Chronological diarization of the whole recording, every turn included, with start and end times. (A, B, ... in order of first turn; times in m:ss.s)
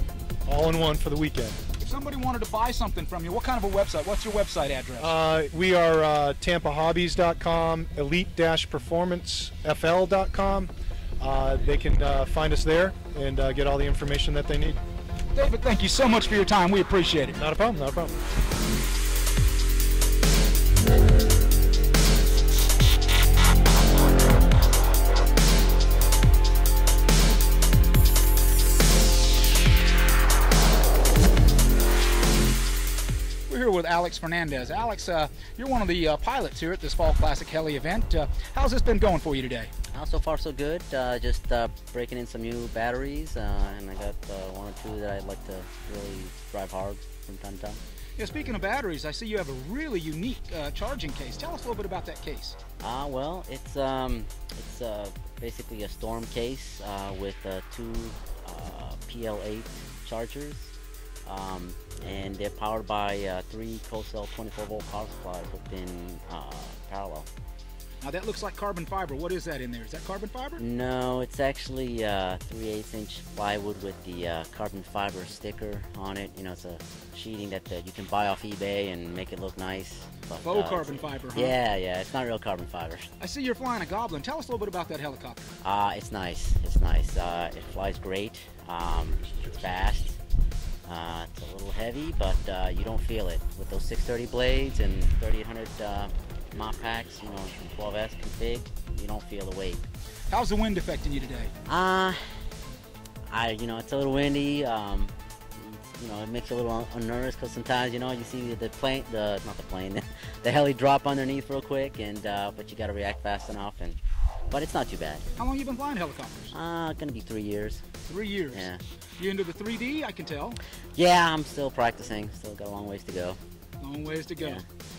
0:00.4-0:01.6 A
0:01.8-0:05.2 B
0:05.0-0:14.8 A
0:15.3-0:17.4 B
0:17.4-0:18.2 A
0:33.5-0:39.7 B
0:39.9-0:47.8 C
0:48.2-0:52.6 B
0:52.8-1:00.7 C
1:01.2-1:07.3 C
1:08.0-1:10.6 B
1:10.6-1:23.1 C
1:20.4-1:21.6 B
1:23.2-1:25.5 B
1:25.6-1:30.2 C
1:30.8-1:39.8 C
1:40.3-1:41.5 B
1:41.7-1:42.2 C
1:43.3-1:54.0 C
1:54.5-1:55.2 C
1:55.4-1:56.5 B
1:56.5-1:57.8 C
1:58.0-2:00.6 B
1:58.5-1:58.8 C
2:01.0-2:03.4 C
2:03.8-2:04.6 B